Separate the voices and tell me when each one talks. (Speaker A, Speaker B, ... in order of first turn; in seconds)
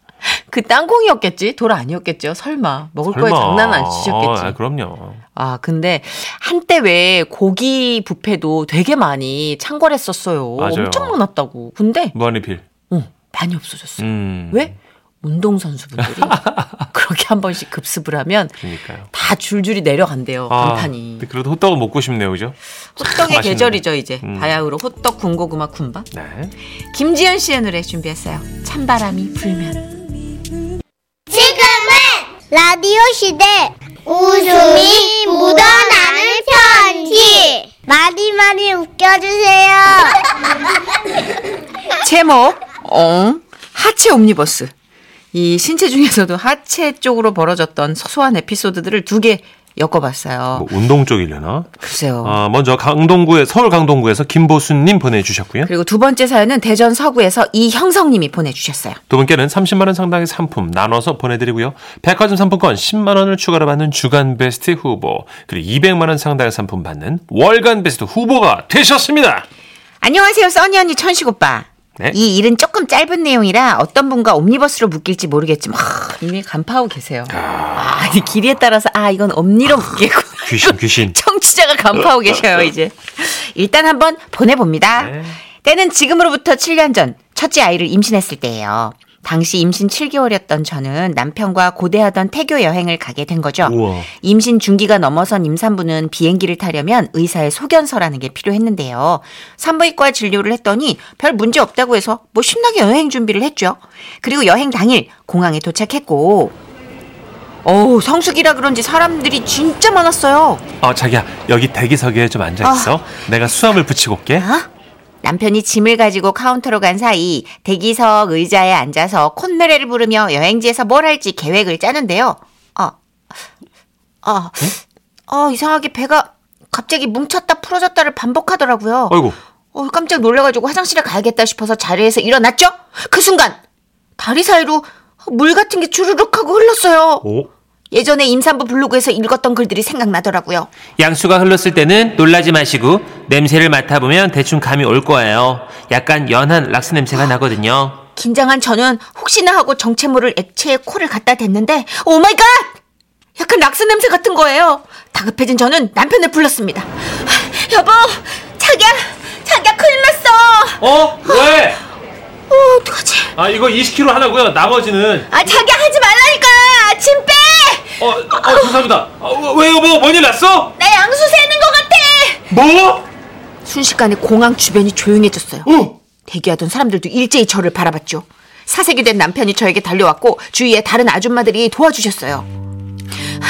Speaker A: 0.2-4.6, 5.3-12.2, 12.9-16.4, 16.9-18.6, 19.1-21.3, 23.0-26.1, 26.9-29.9, 42.0-44.7, 45.3-50.7, 51.8-52.4, 55.6-59.0, 70.0-106.5, 107.6-110.6, 112.6-113.0, 114.4-114.7, 115.2-123.0, 124.2-124.7, 125.3-129.2, 129.7-133.6, 134.2-137.2, 137.9-140.7, 148.2-152.8, 153.4-160.8, 162.5-163.3, 165.3-168.8, 170.8-172.5, 173.6-175.7, 176.2-182.5
Speaker B: 3.1-5.2, 10.6-11.2, 12.1-12.6, 14.0-14.7, 16.3-16.8, 18.6-19.1, 20.5-24.6, 26.1-26.5, 50.5-55.7, 59.1-69.4, 77.3-77.9, 80.4-81.1, 85.0-85.4, 93.6-94.1, 110.8-114.4, 129.1-129.4, 137.2-137.5, 141.0-148.0, 160.8-161.8, 163.3-165.3, 168.0-170.7, 172.5-173.0, 175.7-175.9
Speaker C: 31.3-40.2